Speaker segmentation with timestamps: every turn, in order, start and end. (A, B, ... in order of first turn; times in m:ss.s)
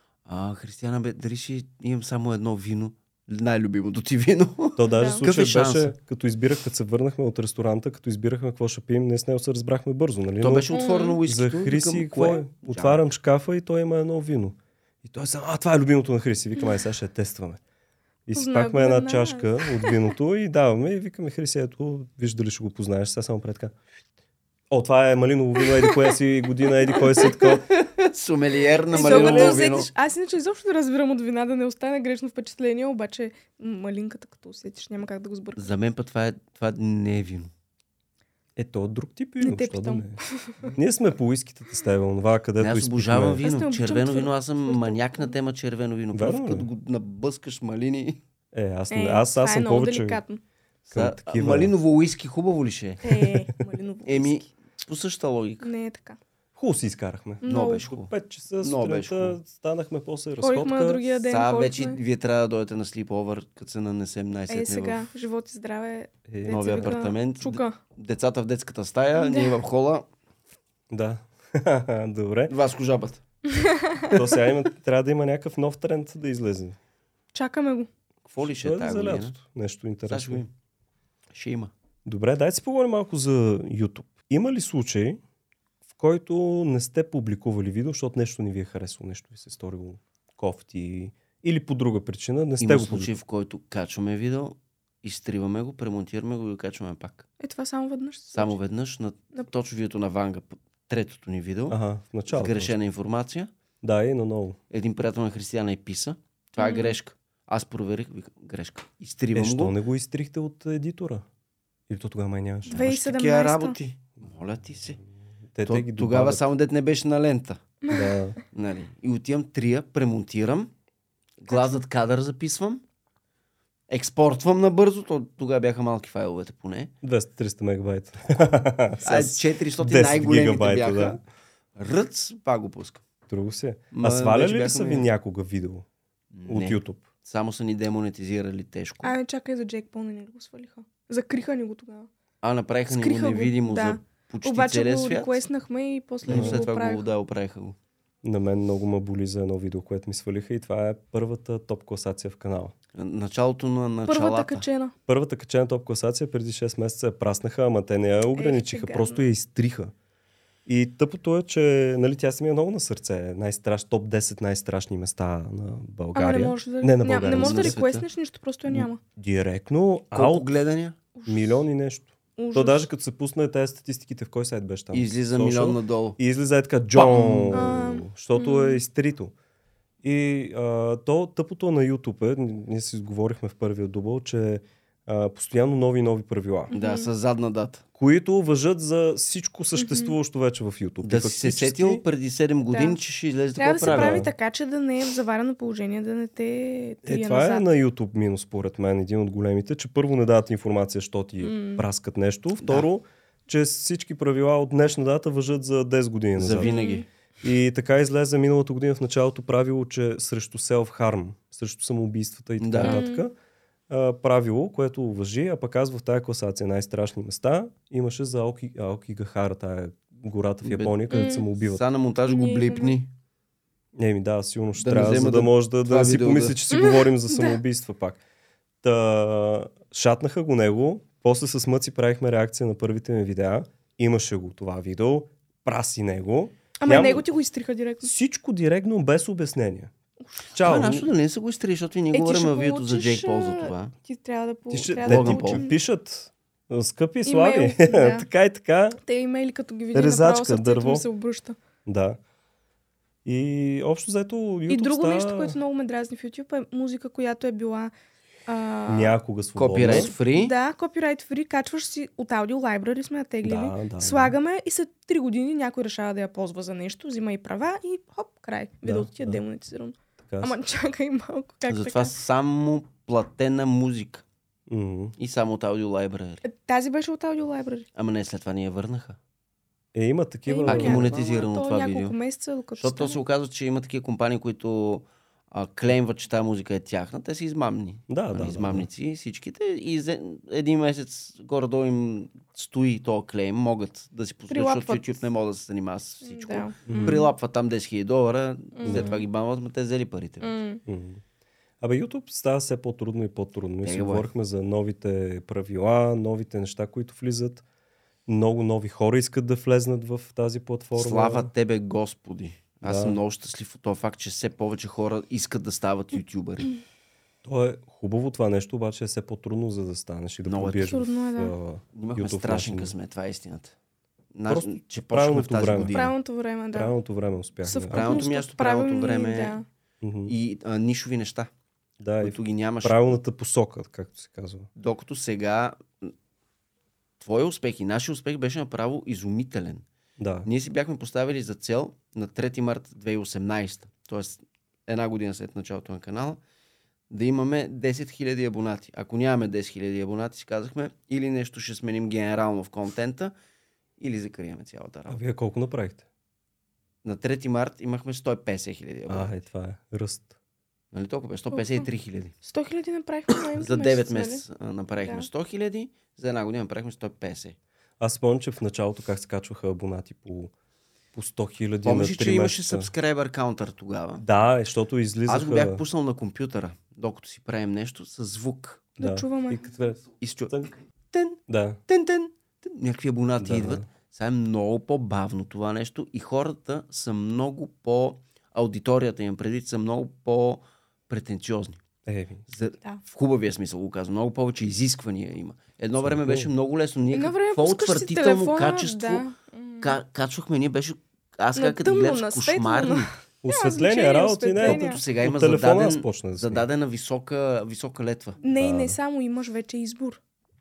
0:00.2-0:05.9 A
0:04.8-0:10.7 B
0:04.9-0:05.2 C
0:10.4-0:13.1 A
0:10.7-0:11.2 C
0:11.2-0:17.6 B
0:18.3-0:23.7 B
0:18.4-0:20.1 C
0:24.7-0:27.7 B
0:25.7-0:26.2 C
0:26.9-0:27.3 C
0:27.2-0:29.9 A
0:28.9-0:35.7 C
0:28.9-0:29.6 B
0:35.6-0:37.5 A
0:38.6-0:40.2 B
0:39.4-0:40.6 C
0:40.7-0:43.4 B
0:42.6-0:48.2 A
0:43.4-0:45.3 C
0:46.1-0:46.7 B
0:48.5-0:50.2 B
0:48.9-0:50.4 C
0:50.9-0:53.0 A
0:50.9-0:51.7 B
0:53.0-0:54.5 C
0:54.0-0:55.7 A
0:55.6-0:56.2 C
0:56.6-1:01.0 B
0:57.4-0:57.9 C
0:57.4-0:59.4 A
1:00.4-1:02.0 C
1:01.2-1:05.0 A
1:04.5-1:07.8 C
1:06.3-1:06.9 B
1:06.5-1:10.1 A
1:09.2-1:09.6 C
1:10.9-1:12.5 B
1:12.5-1:13.2 A
1:13.5-1:14.2 C
1:14.1-1:16.8 B
1:17.3-1:17.9 C
1:18.2-1:19.4 A
1:18.4-1:20.4 B
1:20.1-1:20.5 A
1:21.3-1:21.7 A
1:22.0-1:25.2 B
1:25.9-1:33.1 B
1:32.6-1:37.2 A
1:37.4-1:38.6 C
1:38.3-1:41.8 A
1:41.7-1:42.7 B
1:42.3-1:43.5 A
1:43.8-1:44.6 B
1:44.7-1:49.8 A
1:46.6-1:47.0 C
1:49.3-1:51.2 B
1:51.9-1:52.8 B
1:52.7-1:53.8 C
1:52.7-1:55.0 A
1:55.5-1:56.5 B
1:55.6-1:57.6 A
1:57.8-1:58.2 C
1:57.9-1:58.4 B
1:58.5-2:00.7 A
2:01.4-2:02.8 A
2:01.5-2:01.8 C
2:03.9-2:06.9 A
2:07.0-2:11.2 B
2:09.0-2:11.2 A
2:11.8-2:13.0 A
2:13.3-2:15.8 B
2:13.9-2:15.1 A
2:16.3-2:19.2 A
2:16.4-2:17.0 B
2:19.0-2:22.1 C
2:22.4-2:25.4 A
2:22.9-2:27.0 C
2:26.2-2:27.8 A
2:26.3-2:26.6 B
2:28.2-2:32.7 B
2:32.9-2:34.6 A
2:34.1-2:34.9 C
2:35.1-2:39.9 B
2:38.3-2:39.3 C
2:40.6-2:47.8 B
2:46.1-2:49.0 C
2:47.3-2:48.1 A
2:48.7-2:50.5 B
2:50.1-2:51.0 A
2:51.1-2:51.6 C
2:51.2-2:59.3 B
2:52.4-2:52.9 C
2:54.9-2:56.2 A
2:56.9-2:57.7 A
2:57.5-2:58.8 C
3:00.0-3:06.7 B
3:06.7-3:07.1 C
3:06.7-3:07.8 A
3:08.0-3:12.0 B
3:09.8-3:10.1 C
3:11.0-3:14.2 A
3:12.7-3:13.0 C
3:13.6-3:17.6 C
3:13.8-3:14.3 B
3:17.0-3:26.7 B
3:21.4-3:21.8 C
3:22.6-3:22.9 A
3:26.4-3:27.0 A
3:26.6-3:27.0 C
3:27.4-3:33.3 B
3:32.6-3:33.0 A
3:32.8-3:33.2 C
3:33.9-3:41.8 B
3:40.6-3:43.1 A
3:41.1-3:41.5 C
3:42.3-3:43.0 C
3:44.0-3:48.2 B
3:44.8-3:46.6 A
3:46.7-3:47.6 C
3:48.8-3:57.2 B
3:56.8-3:58.1 C
3:58.0-3:59.9 B
4:00.5-4:01.1 B
4:00.6-4:03.9 A
4:02.1-4:05.8 C
4:04.7-4:09.0 B
4:05.0-4:05.6 A
4:07.2-4:08.2 C
4:09.0-4:11.6 C
4:09.9-4:11.0 B
4:11.8-4:12.2 B
4:13.2-4:15.6 B
4:14.7-4:17.9 C
4:18.5-4:19.2 C
4:18.9-4:20.1 B
4:19.6-4:20.5 A
4:19.8-4:32.1 C
4:23.4-4:24.3 B
4:28.8-4:29.4 B
4:30.2-4:30.5 B
4:31.7-4:34.2 A
4:34.7-4:35.2 B
4:35.2-4:36.4 A
4:36.4-4:37.9 C
4:37.9-4:39.2 A
4:39.9-4:41.1 B
4:40.5-4:43.2 C
4:40.6-4:42.1 A
4:42.8-5:00.5 A
4:48.1-4:48.9 B
4:54.5-4:55.1 C
4:56.2-4:57.3 C
4:56.8-4:57.2 B
4:58.7-4:59.2 C
4:58.8-4:59.2 B
5:00.4-5:00.8 C
5:00.8-5:01.2 B
5:01.8-5:07.6 B
5:03.8-5:04.3 A
5:08.3-5:11.5 B
5:10.9-5:16.7 A
5:12.8-5:13.2 B
5:17.4-5:22.9 B
5:20.4-5:20.9 A
5:20.8-5:21.5 C
5:21.9-5:23.7 A
5:24.3-5:26.1 A
5:24.4-5:26.0 B
5:25.9-5:27.0 C
5:26.7-5:28.2 B
5:27.6-5:29.6 C
5:27.9-5:29.6 A
5:30.0-5:30.3 B
5:30.3-5:31.5 A
5:32.0-5:34.7 B
5:32.2-5:33.1 A
5:34.8-5:36.1 A
5:37.2-5:39.8 A
5:40.2-5:40.5 B
5:40.4-5:46.4 A
5:47.1-5:53.3 A
5:54.0-5:55.2 A
5:55.1-5:56.0 B
5:57.0-5:59.3 A
5:59.1-6:00.3 B
6:00.9-6:02.3 A
6:01.5-6:01.8 C
6:02.4-6:04.4 C
6:03.5-6:07.6 A
6:08.0-6:10.5 B
6:11.1-6:12.9 B
6:11.8-6:14.2 A
6:14.2-6:15.8 B
6:15.3-6:18.9 A
6:19.0-6:19.6 C
6:19.0-6:20.7 B
6:20.2-6:20.5 A
6:21.1-6:31.8 A
6:21.5-6:21.8 B
6:23.4-6:23.9 B
6:32.0-6:32.4 B
6:32.5-6:39.2 A
6:36.0-6:36.5 B
6:37.1-6:40.0 C
6:39.8-6:43.1 A
6:41.6-6:45.0 C
6:43.4-6:46.6 B
6:44.6-6:48.4 A
6:48.4-6:50.2 C
6:48.5-6:49.0 B